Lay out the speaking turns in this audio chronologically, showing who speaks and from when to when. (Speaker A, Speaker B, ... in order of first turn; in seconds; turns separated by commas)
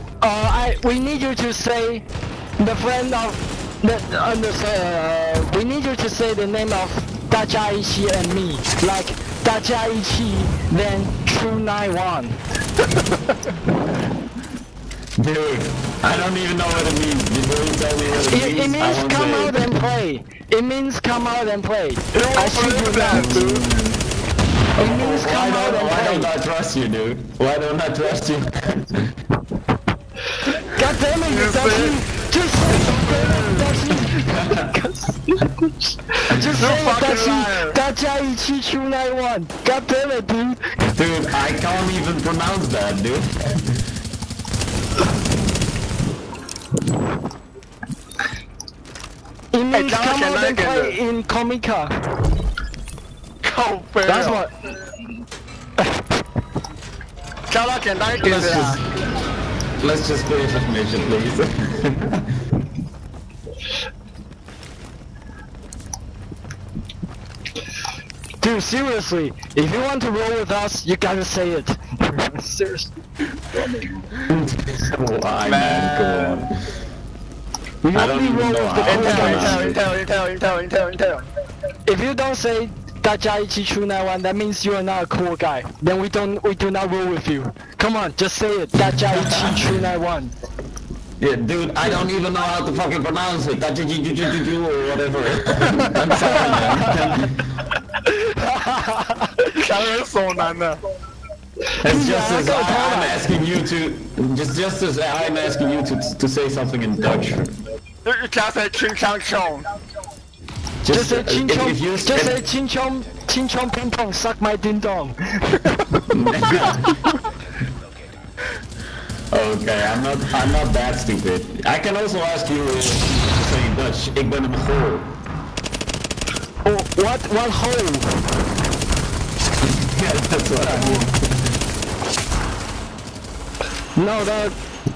Speaker A: 0.2-2.1, Speaker A: 2.6-12.4, Speaker B: 15.2-19.6, Speaker A: 18.3-23.5, Speaker C: 22.1-23.7, Speaker B: 23.1-24.0, Speaker B: 24.8-29.1, Speaker A: 24.8-26.3, Speaker A: 30.5-40.7, Speaker C: 31.2-32.0, Speaker C: 32.6-33.8, Speaker C: 36.6-37.8, Speaker B: 40.8-43.4, Speaker A: 49.5-51.9, Speaker C: 49.7-51.0, Speaker C: 53.4-54.4, Speaker A: 54.0-54.5, Speaker C: 57.5-58.8, Speaker B: 58.2-58.8, Speaker B: 59.8-62.2, Speaker A: 68.4-72.9, Speaker B: 74.2-76.5, Speaker C: 75.4-76.5, Speaker A: 77.8-79.7, Speaker B: 77.9-79.8, Speaker C: 78.8-81.3, Speaker A: 81.9-90.3, Speaker B: 89.1-89.7, Speaker B: 91.2-97.4, Speaker A: 96.2-97.2, Speaker A: 98.1-99.3, Speaker C: 99.5-100.8, Speaker B: 101.8-107.6, Speaker A: 101.8-103.2, Speaker C: 108.0-109.7, Speaker B: 110.8-112.4, Speaker A: 110.9-116.4, Speaker B: 116.1-117.0, Speaker B: 119.3-125.2, Speaker A: 126.6-128.5, Speaker B: 129.7-131.3, Speaker A: 130.7-131.0, Speaker A: 134.0-134.6